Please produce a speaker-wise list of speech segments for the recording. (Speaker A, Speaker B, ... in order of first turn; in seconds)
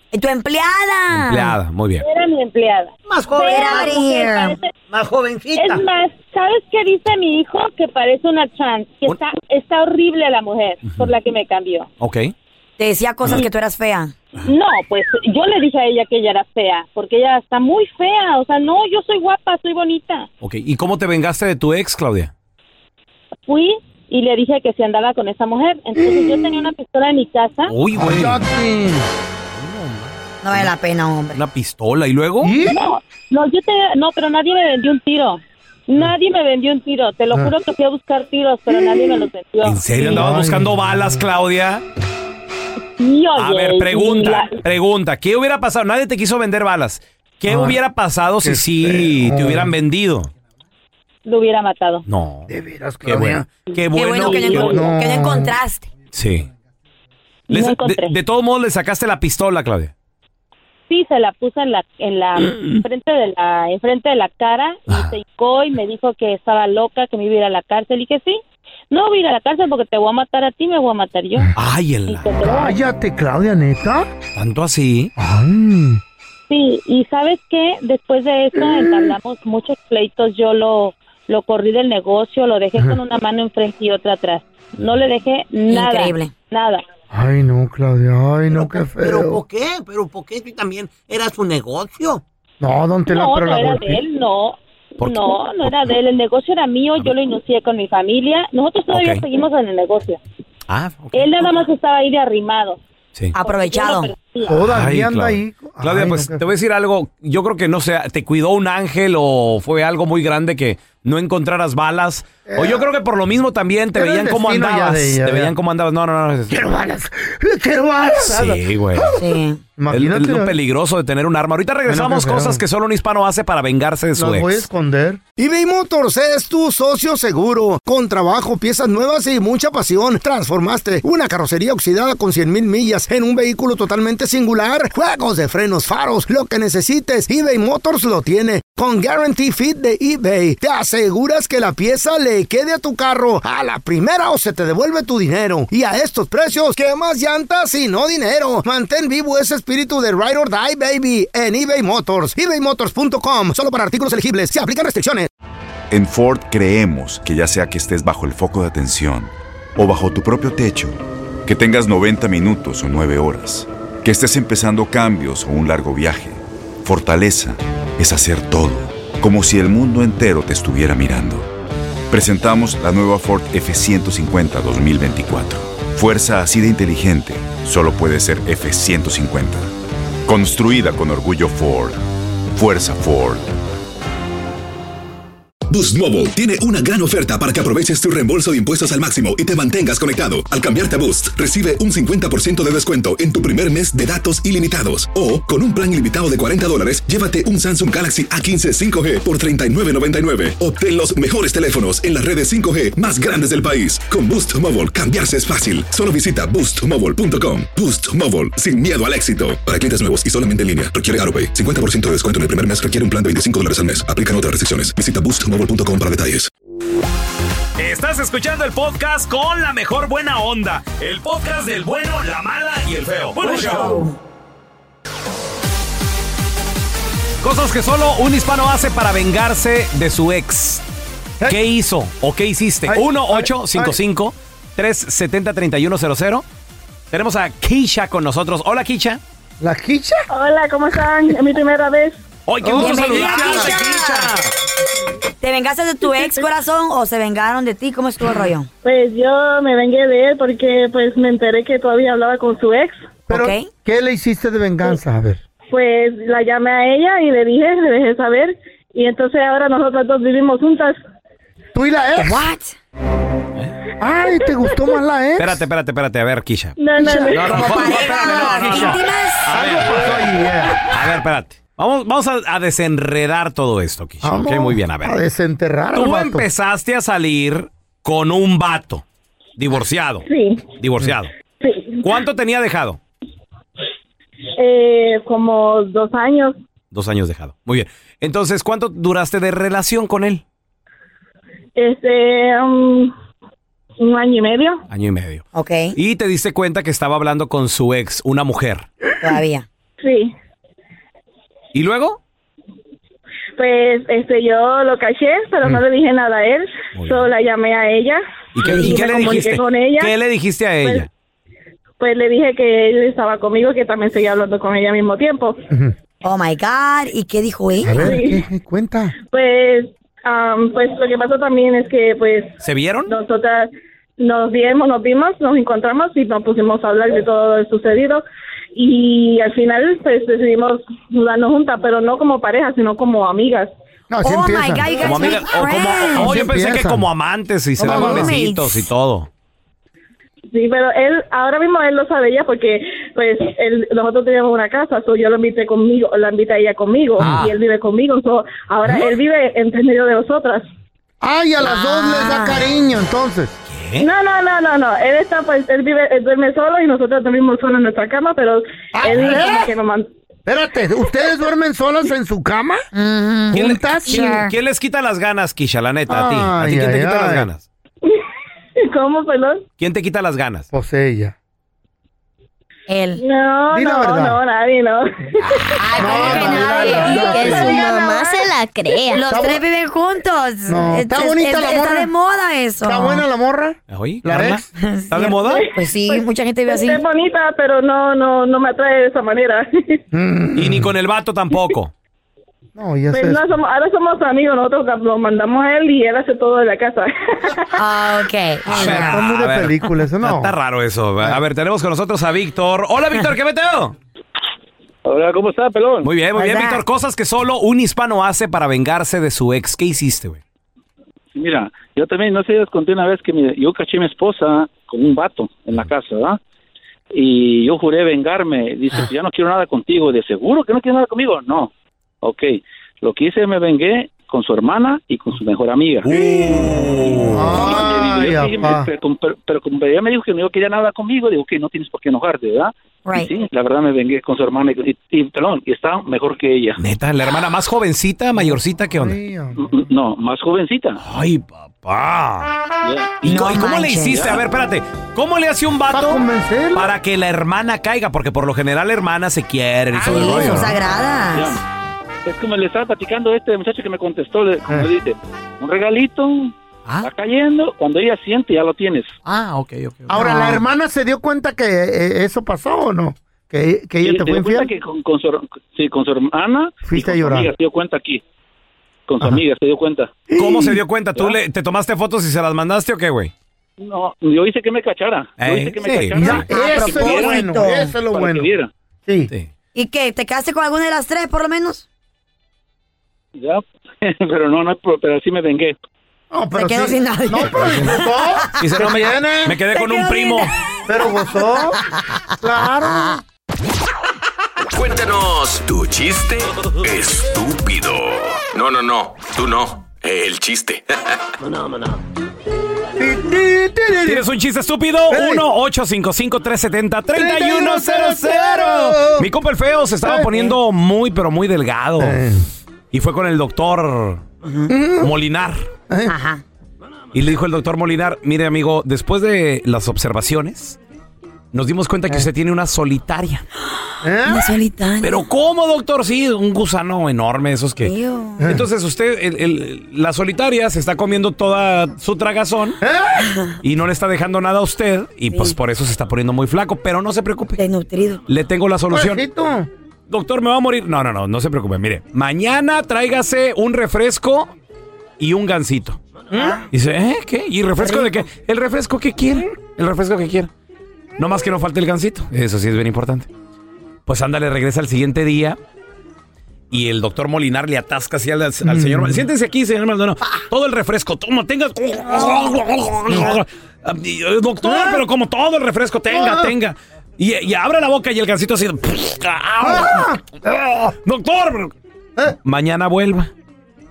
Speaker A: 0.1-1.6, 3.4-4.6, 12.8-14.1, 30.4-31.4, 53.9-55.9, 85.7-86.3, 103.3-104.1, 119.1-119.6, 223.4-224.2, 242.8-244.3, 245.4-248.7, 253.3-253.7, 262.2-262.8, 267.0-269.5, 295.5-296.0, 299.2-299.6, 316.2-318.1, 334.2-336.5, 337.8-338.9, 351.6-352.6, 362.9-364.5, 372.9-373.2, 375.8-378.4, 379.1-383.2, 384.8-387.0, 397.7-399.2, 406.4-406.8, 443.2-444.4, 450.0-451.6, 460.1-460.6, 476.4-477.9, 479.7-481.8, 486.5-488.0, 489.7-490.5, 514.4-514.7, 516.0-516.4, 524.2-525.3, 527.8-528.5, 533.3-533.6, 535.3-535.6, 537.6-538.2, 546.3-546.6, 547.8-548.1
Speaker B: 1.1-2.0, 10.8-11.1, 12.0-12.3, 20.4-22.3, 27.6-28.4, 29.5-30.7, 31.3-32.5, 39.6-41.8, 43.4-50.3, 52.0-52.5, 53.0-54.8, 56.1-56.5, 57.5-59.9, 64.9-65.1, 71.5-72.4, 74.3-75.1, 95.0-96.0, 98.9-99.2, 100.7-101.6, 104.6-116.6, 118.2-119.1, 119.9-124.7, 217.8-224.0, 227.4-230.8, 231.5-236.4, 237.1-239.2, 242.4-244.5, 265.4-270.3, 270.8-275.2, 275.9-279.0, 279.6-281.3, 282.0-283.0, 286.9-290.4, 294.9-295.4, 295.9-298.9, 301.7-302.2, 306.9-307.2, 308.5-311.1, 322.6-323.1, 335.0-339.3, 347.2-347.5, 353.7-354.1, 363.5-367.6, 369.8-370.7, 383.9-385.6, 390.5-391.9, 398.7-403.9, 406.0-410.4, 426.0-427.8, 436.8-439.2, 441.0-442.5, 443.2-446.2, 446.7-450.8, 459.2-460.2, 470.3-473.3, 475.4-476.5, 488.6-490.5, 504.0-512.2, 512.9-514.2, 515.0-515.7, 517.1-520.8, 521.5-523.4, 525.0-532.8, 533.6-537.6, 538.3-539.2, 540.1-544.5, 545.2-546.0, 546.7-550.5, 551.2-553.3, 554.1-555.6, 556.7-570.1, 571.0-571.7, 572.4-573.3
Speaker C: 2.0-4.8, 5.5-11.9, 14.4-20.3, 23.4-27.7, 32.6-39.8, 43.0-44.6, 51.2-52.0, 54.3-54.7, 57.5-58.1, 60.9-68.4, 68.9-71.5, 72.1-72.8, 76.5-86.8, 93.1-100.2, 101.1-102.8, 103.4-104.6
Speaker D: 3.0-4.0, 4.9-5.8, 88.9-92.2
Speaker E: 26.0-26.7, 27.9-29.0, 32.4-32.8, 38.7-39.3, 40.0-41.2, 47.5-47.8, 48.4-49.7, 52.5-53.5, 54.6-55.5, 72.4-74.1, 75.2-76.0, 78.5-79.1, 87.1-89.4, 92.6-94.0, 104.4-106.4, 112.5-112.9, 114.0-115.5, 116.5-120.6, 121.8-122.6, 124.2-155.3, 232.9-234.0, 239.6-240.2, 242.6-243.8, 253.3-255.4, 261.7-262.5, 264.0-265.6, 267.4-270.8, 274.2-276.4, 317.8-319.1, 334.1-335.4, 336.1-337.1, 337.8-338.3, 351.2-353.6, 358.9-359.7, 360.5-362.8, 363.5-364.4, 366.1-367.5, 370.7-371.3, 373.7-374.4, 376.0-378.1, 379.2-379.6, 380.7-382.1, 382.8-384.6, 390.1-390.9, 392.8-393.4, 398.7-400.5, 427.3-428.9, 438.4-439.9, 445.9-446.9, 460.1-464.7, 466.8-467.5, 470.3-470.8, 475.8-478.5, 479.1-479.3, 486.3-489.6, 490.9-491.8, 492.4-493.1, 503.0-504.2, 505.1-505.5, 507.1-509.3, 510.0-510.5, 512.0-512.5, 514.7-515.1, 515.9-516.1, 524.0-524.5, 532.8-533.2, 538.9-539.7, 546.3-546.6, 558.6-559.2, 563.1-563.4, 564.6-565.0, 566.1-566.5, 569.6-570.9
Speaker F: 155.9-171.5, 172.1-179.7, 180.2-182.0, 182.5-183.5
Speaker G: 185.7-216.5
Speaker H: 240.3-242.2, 246.0-246.4, 248.8-253.1, 255.7-261.0, 266.8-267.4, 280.3-280.7, 281.6-282.0, 284.6-286.6, 291.8-293.1, 294.0-294.8, 300.0-300.3, 303.6-310.1, 310.8-311.1, 312.0-315.6, 317.9-318.4, 319.3-328.2, 328.7-333.7, 340.5-350.6, 354.0-360.1, 368.8-369.6, 373.2-375.9, 385.4-390.0, 393.1-397.8
Speaker I: 376.0-379.2
Speaker J: 405.0-406.1, 411.3-416.4, 417.1-421.7, 422.2-436.8, 439.6-441.0, 442.8-443.2, 451.3-451.6, 452.2-459.1, 464.0-468.2, 469.1-470.1, 473.8-478.7, 483.4-485.8
Speaker K: 494.7-501.0